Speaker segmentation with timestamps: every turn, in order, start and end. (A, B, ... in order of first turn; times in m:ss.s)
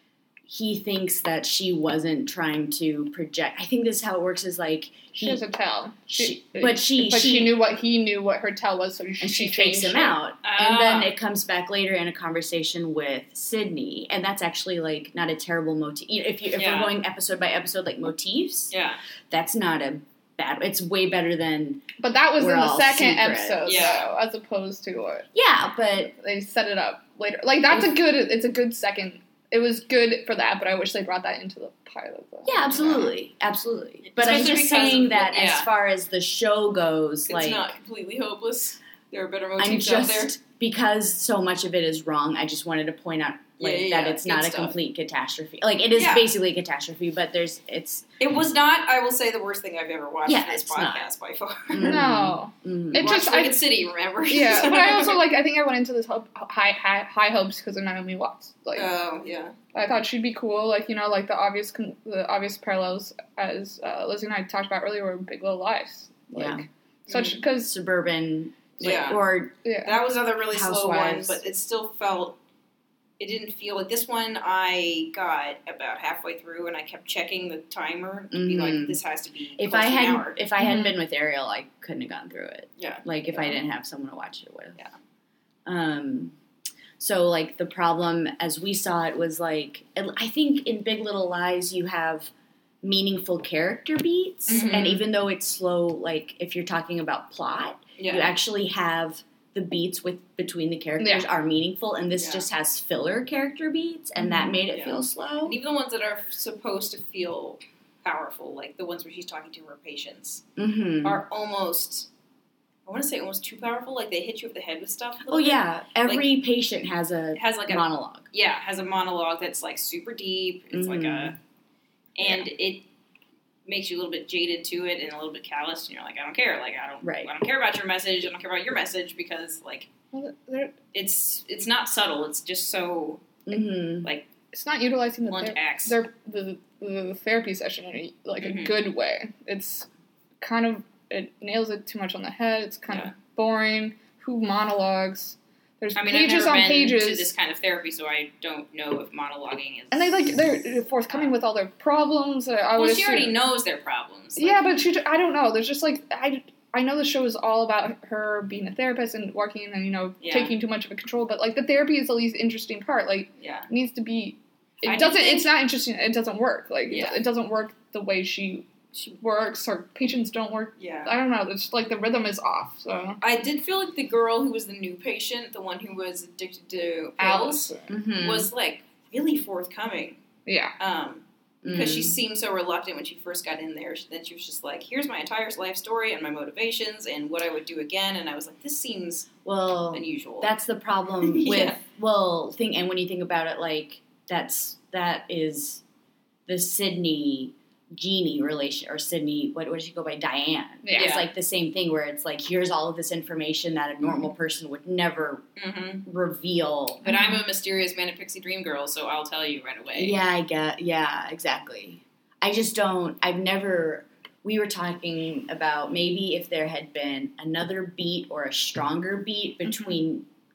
0:00.4-0:05.4 A
0:05.1-0:10.2 B
0:06.1-0:07.6 A
0:09.2-0:18.7 A
0:10.4-0:11.1 C
0:16.6-0:17.0 C
0:18.7-0:19.0 C
0:19.3-0:21.8 A
0:22.0-0:25.3 B
0:22.4-0:24.0 A
0:23.7-0:24.1 C
0:25.3-0:26.1 A
0:26.0-0:32.7 B
0:27.7-0:28.0 A
0:32.4-0:37.7 A
0:32.8-0:33.1 C
0:34.0-0:35.7 C
0:37.3-0:40.3 C
0:39.6-0:48.1 A
0:43.6-0:44.8 C
0:46.0-0:46.3 C
0:48.2-0:52.0 C
0:50.2-0:51.1 A
0:51.7-0:53.1 A
0:51.8-0:53.6 B
0:53.0-0:55.2 C
0:54.3-0:58.9 B
0:58.8-0:59.6 C
0:59.7-1:07.7 B
1:06.4-1:06.6 A
1:07.1-1:07.4 C
1:07.6-1:09.5 A
1:08.8-1:09.2 C
1:09.6-1:10.0 B
1:09.8-1:12.4 C
1:10.5-1:11.4 A
1:13.2-1:20.4 C
1:18.3-1:19.0 A
1:19.6-1:24.8 A
1:20.6-1:21.0 B
1:22.8-1:23.5 C
1:25.7-1:26.3 A
1:27.0-1:32.3 A
1:32.8-1:45.6 A
1:34.5-1:35.0 C
1:38.0-1:38.3 C
1:41.0-1:41.3 B
1:42.2-1:42.5 C
1:44.2-1:44.5 B
1:44.7-1:50.4 C
1:50.6-1:51.2 A
1:51.0-1:52.1 C
1:52.9-1:56.3 C
1:55.3-1:58.3 A
1:57.4-2:01.4 C
2:00.7-2:01.4 A
2:02.2-2:02.9 C
2:02.2-2:02.5 A
2:03.7-2:09.9 C
2:07.0-2:07.3 A
2:10.1-2:10.8 B
2:10.9-2:13.4 C
2:13.5-2:14.1 A
2:14.5-2:19.9 B
2:15.3-2:16.0 C
2:18.4-2:18.8 C
2:20.4-2:27.3 B
2:22.9-2:23.1 C
2:26.0-2:30.6 C
2:29.9-2:33.3 B
2:31.1-2:31.3 C
2:32.8-2:34.6 C
2:34.4-2:48.7 B
2:40.2-2:40.5 C
2:43.4-2:43.7 C
2:44.8-2:45.5 C
2:46.9-2:47.2 C
2:49.2-2:53.2 B
2:50.8-2:51.1 C
2:53.2-3:00.2 C
2:57.2-2:57.9 B
2:57.9-2:58.5 A
3:00.5-3:00.7 B
3:00.8-3:09.3 C
3:01.6-3:02.2 A
3:09.4-3:15.8 A
3:09.9-3:10.5 C
3:11.2-3:11.8 C
3:16.5-3:25.4 A
3:20.8-3:21.2 B
3:21.0-3:21.3 C
3:25.6-3:26.0 C
3:26.0-3:27.1 A
3:27.0-3:30.2 C
3:27.1-3:27.4 B
3:30.0-3:40.3 A